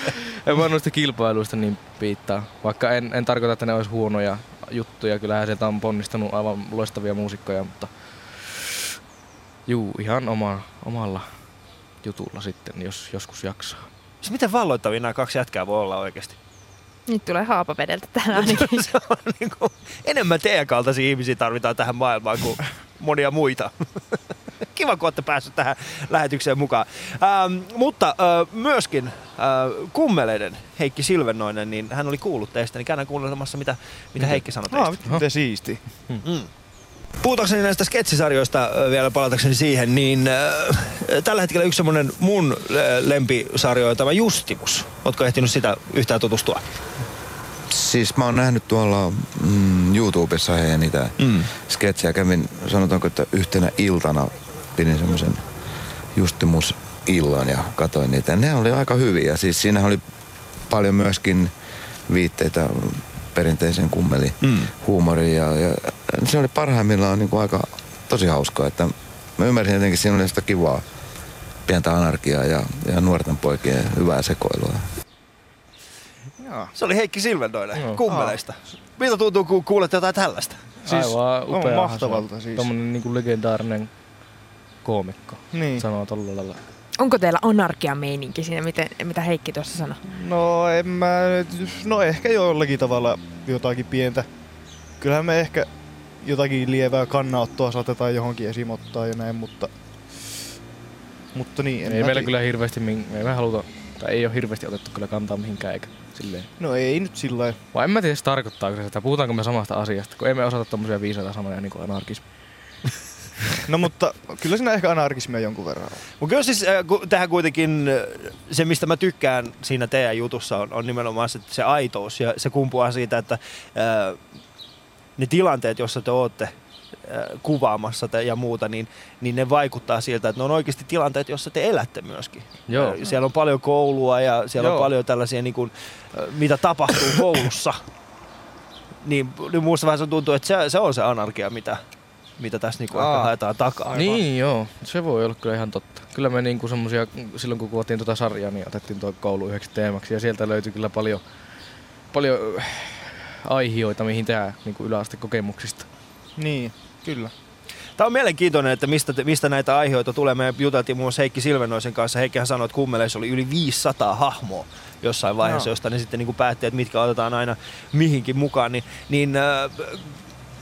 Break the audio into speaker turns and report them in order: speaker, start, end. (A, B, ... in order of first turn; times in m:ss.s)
0:00.3-0:08.6 A
0:09.7-0:11.4 A
0:12.0-0:13.9 A
0:14.2-0:16.4 B
0:17.1-0:18.8 C
0:18.4-0:35.0 B
0:34.7-0:35.9 D
0:35.9-0:36.2 A
0:36.2-0:36.5 B
0:37.2-0:46.7 B
0:47.7-0:55.5 E
0:51.2-0:51.4 B
0:56.2-1:00.0 E
1:00.7-1:01.5 E
1:02.1-1:10.9 E
1:11.6-1:14.9 E
1:16.4-1:16.7 D
1:16.8-1:20.7 B
1:17.7-1:18.0 A
1:18.1-1:18.4 D
1:20.8-1:22.7 D
1:20.8-1:23.9 A
1:24.8-1:26.6 A
1:25.5-1:25.9 D
1:27.0-1:30.0 C
1:30.1-1:34.3 D
1:35.0-1:40.3 D
1:41.3-1:42.3 D
1:41.8-1:46.5 A
1:46.6-1:47.6 D
1:47.7-1:52.3 A
1:53.7-1:56.1 D
1:56.2-2:04.3 B
2:05.2-2:06.5 B
2:07.0-2:17.8 B
2:12.7-2:13.0 A
2:14.6-2:14.9 D
2:19.0-2:21.8 B
2:22.4-2:24.0 B
2:22.9-2:23.3 D
2:23.9-2:24.2 D
2:24.0-2:31.2 A
2:32.1-2:35.9 A
2:36.4-2:37.3 D
2:38.0-2:50.2 B
2:45.4-2:45.7 D